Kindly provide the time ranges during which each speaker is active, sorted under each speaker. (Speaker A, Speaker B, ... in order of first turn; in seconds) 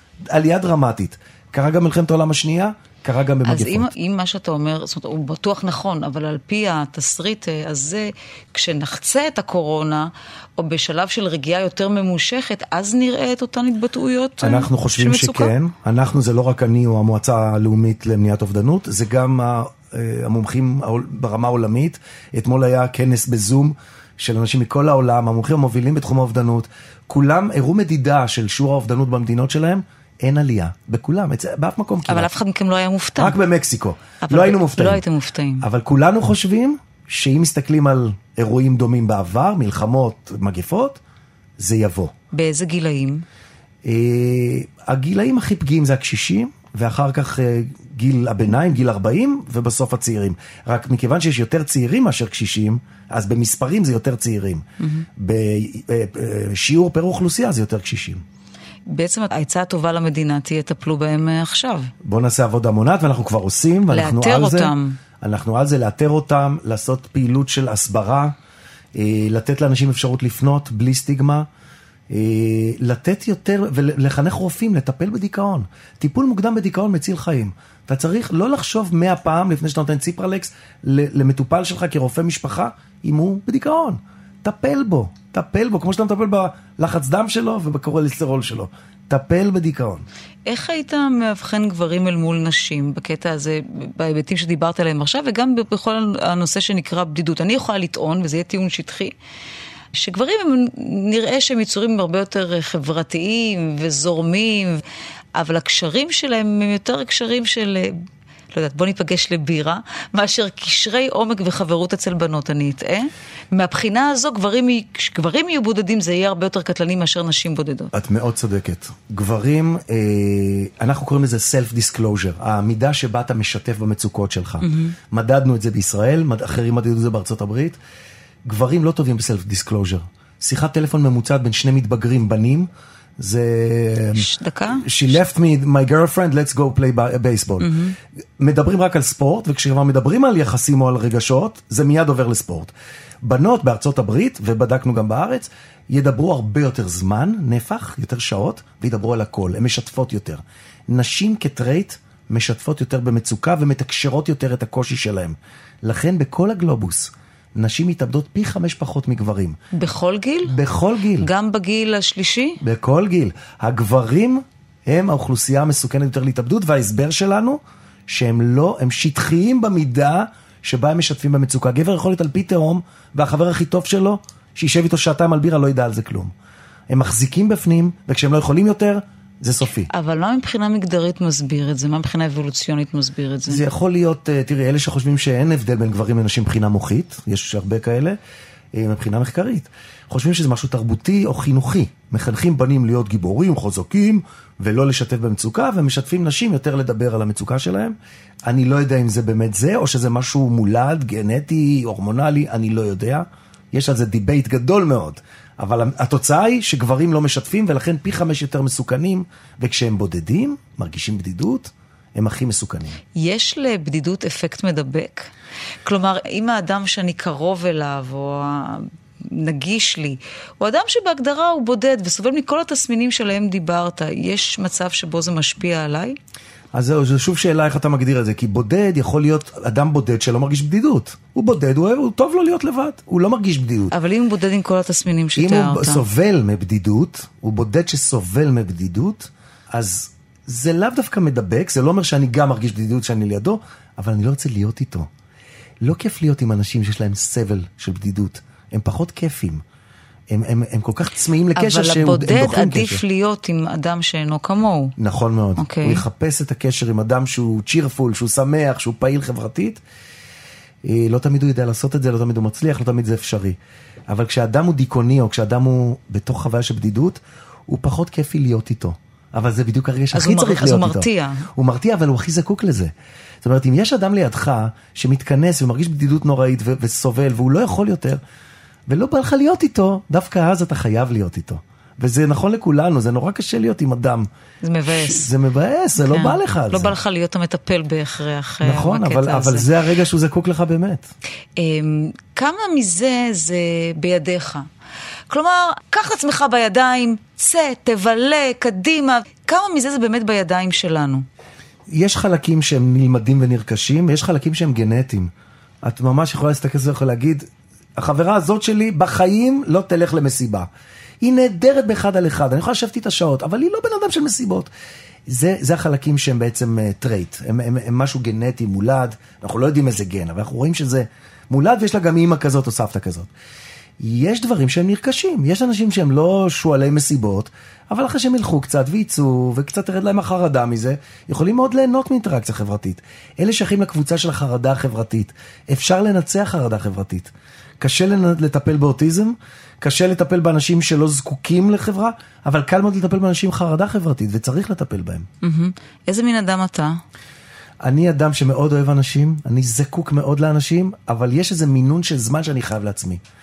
Speaker A: 0.3-3.9, 14.4-32.3, 33.2-35.0, 35.6-41.0, 41.6-42.1, 43.8-54.6, 55.1-58.2, 62.0-68.3, 68.9-71.5, 72.1-90.0, 117.9-127.8, 128.4-137.7, 138.4-142.7, 143.2-159.6, 160.5-161.3, 162.6-176.3, 176.9-179.9, 183.5-188.2, 188.7-197.9, 198.4-213.0, 226.7-233.9, 235.4-245.1, 245.8-249.6, 250.3-253.0, 255.0-259.8, 260.8-263.6, 264.1-278.2, 278.9-284.3, 284.9-286.9, 288.6-291.1, 301.9-305.3, 305.8-310.7, 311.2-314.7, 315.3-323.3, 324.0-345.3, 347.8-353.2
Speaker B: 3.4-15.5, 32.1-33.4, 34.2-35.6, 42.3-43.2, 54.8-55.1, 58.9-61.9, 63.9-65.0, 90.5-99.1, 99.9-104.8, 105.3-108.0, 108.5-117.9, 124.6-124.9, 134.1-135.0, 137.6-137.9, 159.7-160.6, 161.2-162.6, 179.9-183.6, 213.1-215.3, 215.8-226.2, 233.9-236.0, 251.5-254.9, 255.6-256.0, 270.1-271.5, 284.6-285.3, 286.0-289.7, 291.6-294.7, 295.3-301.2, 345.4-347.0